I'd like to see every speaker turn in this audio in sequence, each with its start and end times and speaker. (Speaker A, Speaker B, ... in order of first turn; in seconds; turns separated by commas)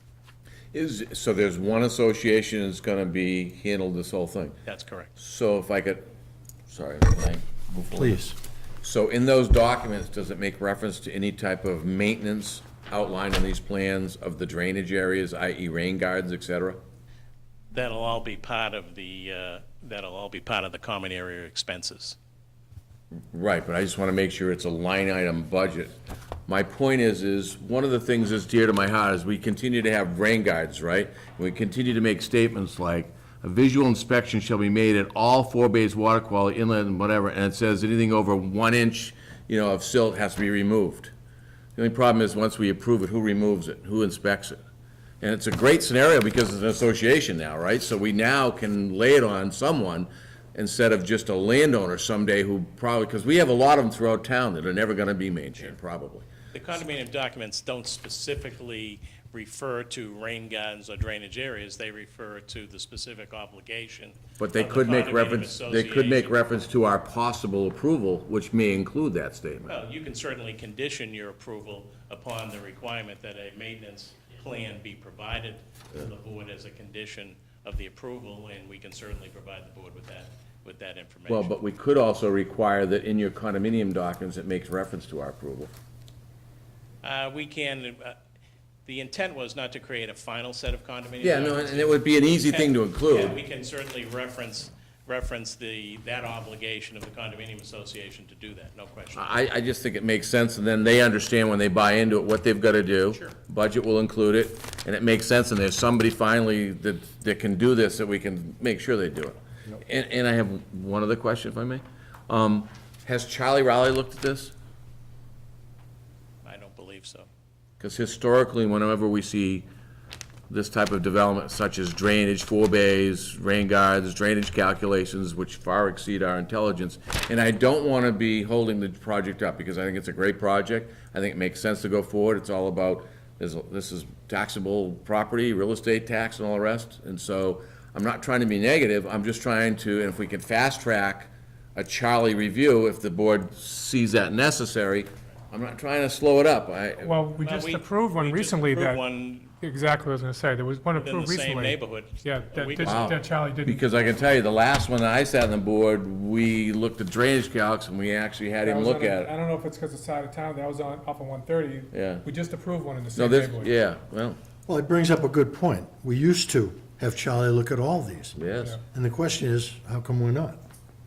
Speaker A: 0.7-4.5, Speaker B: 4.7-5.1, Speaker A: 5.2-6.1, Speaker A: 6.7-8.2, Speaker C: 7.9-8.4, Speaker A: 8.8-16.8, Speaker B: 17.7-22.2, Speaker A: 23.3-25.9, Speaker A: 26.5-41.1, Speaker A: 41.8-44.6, Speaker A: 45.2-56.3, Speaker B: 56.5-66.4, Speaker A: 64.4-69.8, Speaker B: 69.7-81.5, Speaker A: 81.3-85.7, Speaker B: 87.0-88.2, Speaker B: 88.9-99.3, Speaker A: 91.2-93.4, Speaker A: 99.2-114.5, Speaker B: 116.5-117.3, Speaker A: 117.8-119.7, Speaker A: 120.5-147.2, Speaker D: 147.0-149.0, Speaker B: 147.4-149.5, Speaker D: 149.6-153.8, Speaker B: 150.9-153.2, Speaker A: 152.8-159.3, Speaker D: 158.6-163.7, Speaker A: 161.9-162.2, Speaker A: 163.2-164.4, Speaker C: 164.7-168.4, Speaker A: 168.4-168.8, Speaker C: 168.9-170.6